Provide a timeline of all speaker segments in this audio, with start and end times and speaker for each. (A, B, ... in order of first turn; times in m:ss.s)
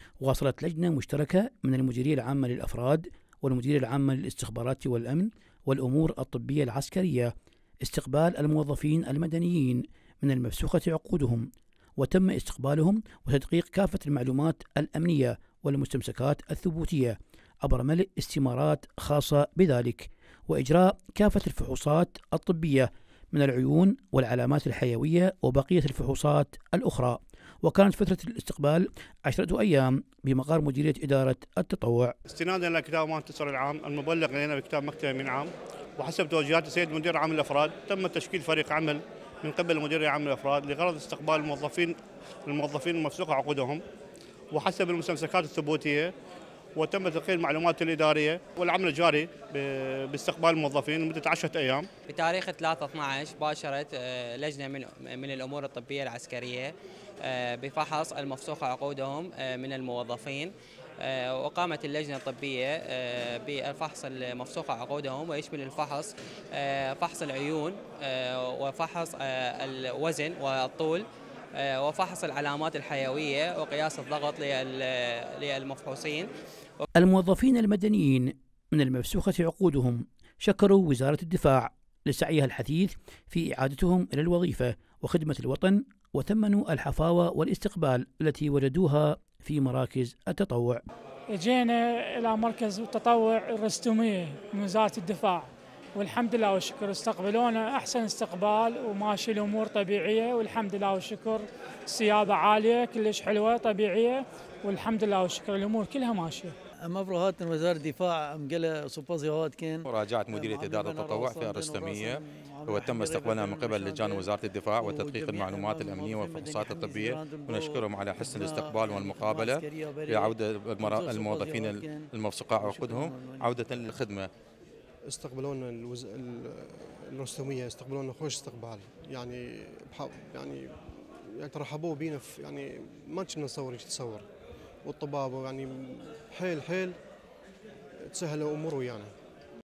0:00.2-0:07.3 A
0:07.8-0:32.1 A
0:32.3-0:43.8 B
0:44.5-0:46.1 B
0:46.8-0:51.9 B
0:52.1-1:11.0 C
1:11.6-1:16.3 C
1:17.0-1:30.8 A
1:31.3-1:46.5 D
1:46.9-2:03.8 E
1:49.9-2:04.3 F
2:05.1-2:14.2 G
2:14.8-2:17.0 G
2:18.0-2:19.1 G